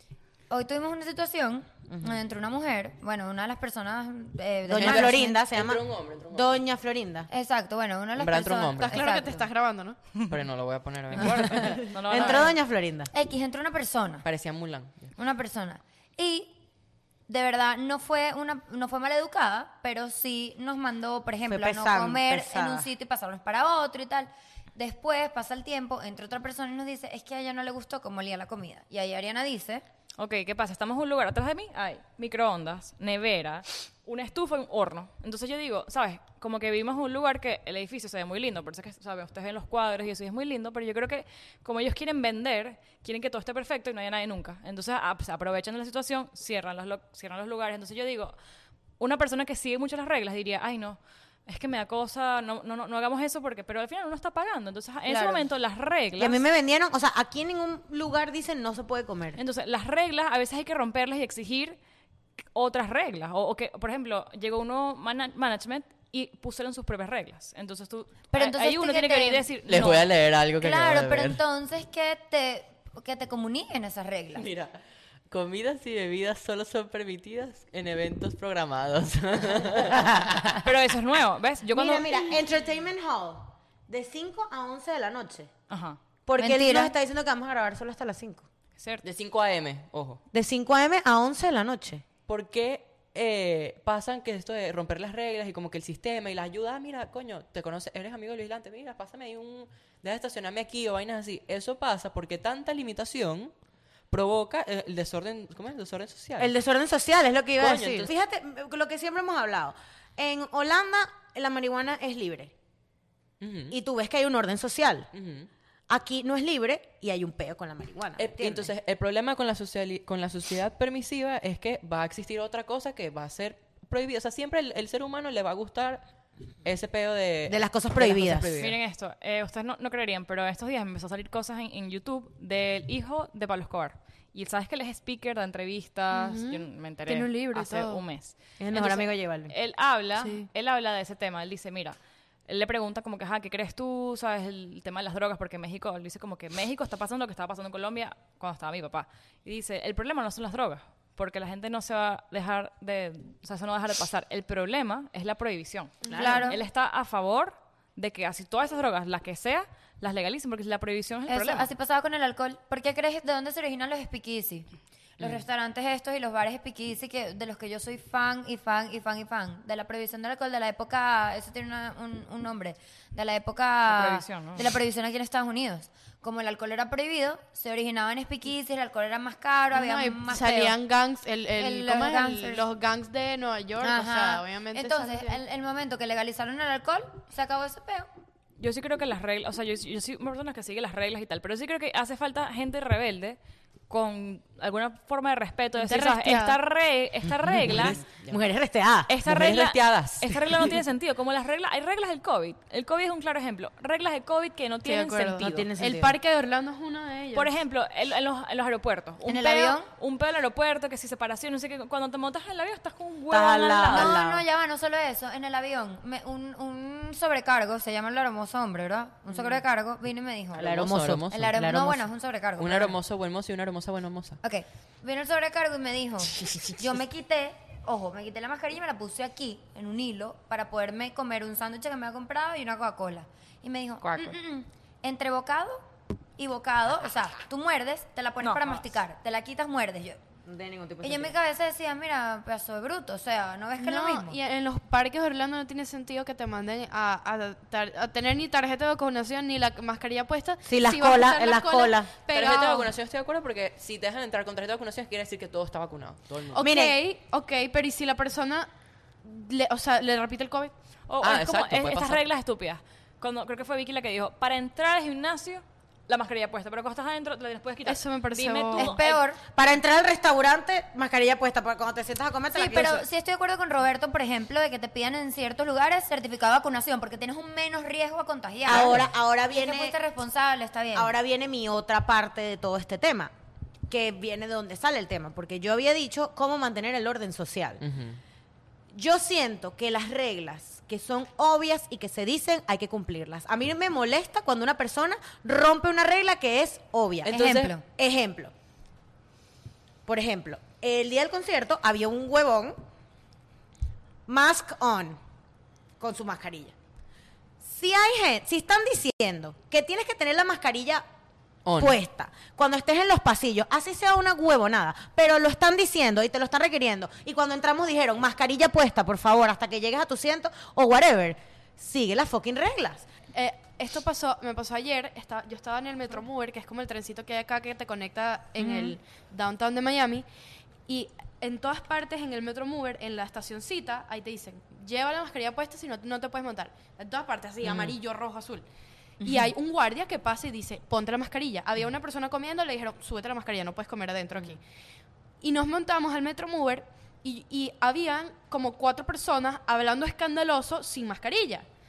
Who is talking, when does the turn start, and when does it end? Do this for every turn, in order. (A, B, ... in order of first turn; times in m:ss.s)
0:00.5-0:05.4 A
0:01.9-0:02.2 B
0:04.7-0:07.3 B
0:04.8-0:06.6 C
0:07.3-0:09.5 A
0:08.2-0:09.1 C
0:08.8-0:10.0 D
0:10.3-0:11.7 C
0:11.1-0:12.5 E
0:11.5-0:13.1 B
0:12.2-0:12.5 A
0:13.1-0:14.3 A
0:14.2-0:15.1 C
0:15.2-0:16.6 A
0:17.3-0:29.8 A
0:21.5-0:22.9 B
0:30.2-0:48.4 E
0:49.0-0:56.4 E
0:55.1-0:55.4 A
0:56.2-0:59.4 B
0:59.4-1:01.8 E
1:02.5-1:10.1 E
1:08.3-1:14.5 A
1:09.7-1:11.4 C
1:14.4-1:14.8 C
1:15.3-1:20.6 C
1:20.6-1:22.2 E
1:21.7-1:25.5 B
1:25.7-1:26.0 E
1:26.2-1:28.5 B
1:26.4-1:26.9 A
1:28.8-1:29.0 E
1:29.0-1:30.2 C
1:30.3-1:32.0 B
1:32.3-1:43.5 C
1:44.1-1:46.5 C
1:46.4-1:52.5 B
1:47.6-1:48.1 C
1:53.4-1:53.8 C
1:53.7-1:55.1 B
1:55.1-1:55.5 C
1:55.9-1:58.7 B
1:58.2-2:06.1 C
2:06.6-2:08.8 C
2:07.5-2:08.6 B
2:08.6-2:41.7 E
2:16.1-2:18.0 D
2:18.6-2:19.5 B
2:20.2-2:20.5 D
2:36.0-2:36.4 B
2:36.1-2:36.6 A
2:41.3-3:00.8 A
2:53.9-2:54.7 E
2:59.7-3:05.4 D
3:01.6-3:02.6 A
3:03.8-3:08.1 A
3:08.6-3:13.4 E
3:13.9-3:18.0 E
3:15.8-3:16.6 D
3:17.5-3:18.4 C
3:17.8-3:19.1 B
3:19.1-3:25.7 E
3:19.2-3:20.7 C
3:24.8-3:27.6 D
3:25.4-3:26.2 B
3:27.3-3:34.2 E
3:29.2-3:29.9 A
3:33.3-3:34.4 B
3:33.9-3:40.8 A
3:40.6-3:42.0 B
3:40.6-3:41.6 C
3:41.3-3:43.0 A
3:42.6-3:44.4 C
3:44.4-3:55.8 A
3:54.0-3:54.4 E
3:56.4-4:00.2 A
3:58.4-3:58.8 E
4:00.4-4:01.4 B
4:01.0-4:04.4 A
4:03.8-4:12.9 D
4:10.6-4:12.1 B
4:12.3-4:16.6 C
4:16.5-4:18.7 D
4:16.6-4:17.0 B
4:19.2-4:20.7 D
4:21.1-4:29.2 E
4:21.2-4:22.2 C
4:27.8-4:29.0 D
4:28.8-4:29.4 A
4:29.5-4:33.1 B
4:32.5-4:41.1 A
4:38.6-4:40.0 B
4:38.7-4:39.1 C
4:41.0-4:43.3 B
4:43.9-4:47.8 B
4:47.8-4:48.2 C
4:48.9-4:58.5 B
4:57.3-4:57.8 A
4:57.3-4:57.7 C
5:00.1-5:02.8 B
5:04.3-5:05.2 B
5:06.0-5:06.8 B
5:07.6-5:11.0 B
5:11.6-5:12.0 C
5:11.8-5:23.1 B
5:23.3-5:30.2 D
5:28.6-5:28.9 B
5:30.9-5:38.6 D
5:37.6-5:37.9 B
5:39.2-5:44.6 D
5:45.4-5:51.6 D